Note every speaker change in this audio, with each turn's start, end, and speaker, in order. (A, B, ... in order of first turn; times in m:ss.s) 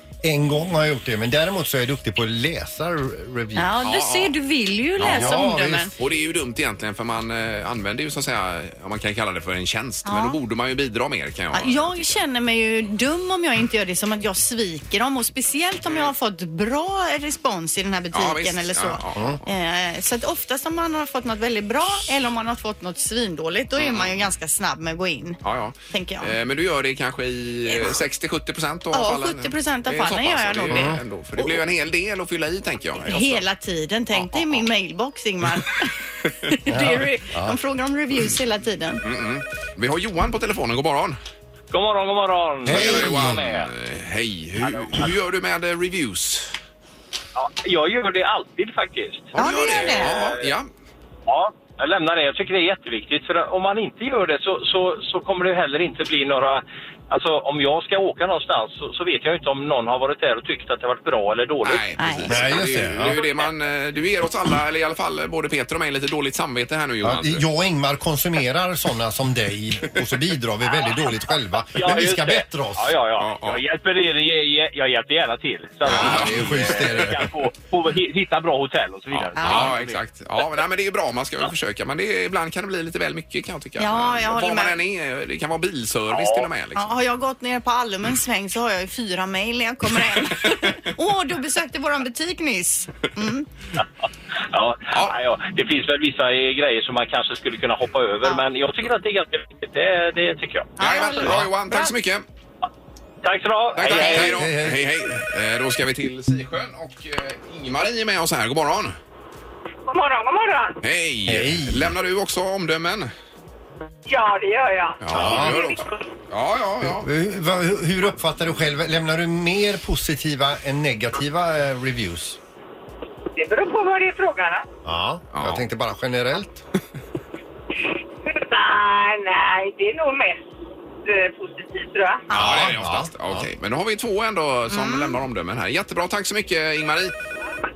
0:00.2-0:03.7 A
0:03.6-0:05.9 B
0:03.8-0:04.4 C
0:05.0-0:05.4 C
0:05.0-0:05.9 A
0:06.0-0:12.2 C
0:10.0-0:10.4 B
0:11.5-0:25.4 B
0:18.1-0:19.4 C
0:23.8-0:24.2 C
0:25.4-0:33.4 C
0:25.9-0:26.3 B
0:27.7-0:27.9 B
0:28.9-0:31.6 B
0:30.7-0:31.0 A
0:33.0-0:35.9 B
0:34.1-0:34.7 C
0:36.5-0:39.0 B
0:36.7-0:37.6 A
0:39.0-0:41.2 C
0:41.7-0:43.7 D
0:42.6-0:43.4 A
0:42.6-0:46.5 C
0:47.4-0:50.6 D
0:49.3-0:50.7 C
0:49.4-0:50.2 B
0:51.3-1:03.4 D
1:01.6-1:07.4 C
1:02.0-1:02.3 B
1:02.3-1:03.2 A
1:07.0-1:13.0 A
1:11.7-1:20.6 D
1:13.2-1:13.6 C
1:15.8-1:17.3 A
1:15.8-1:16.7 C
1:19.1-1:26.9 C
1:19.4-1:19.7 B
1:23.8-1:24.8 B
1:26.1-1:26.5 D
1:26.7-1:33.4 B
1:34.5-1:40.7 D
1:34.9-1:35.1 C
1:40.8-1:41.9 B
1:40.8-1:42.2 C
1:41.2-1:41.5 A
1:43.2-1:44.5 D
1:43.7-1:49.0 C
1:43.9-1:44.9 A
1:49.9-1:50.8 E
1:50.8-1:53.1 C
1:51.3-1:51.9 A
1:54.1-1:56.0 E
1:55.0-1:57.1 C
1:55.1-1:55.6 A
1:56.8-2:02.4 A
2:03.3-2:04.6 E
2:04.8-2:06.6 A
2:05.3-2:05.6 C
2:08.2-2:10.5 E
2:11.0-2:12.3 E
2:12.3-2:13.4 A
2:12.3-2:17.1 C
2:14.7-2:15.2 B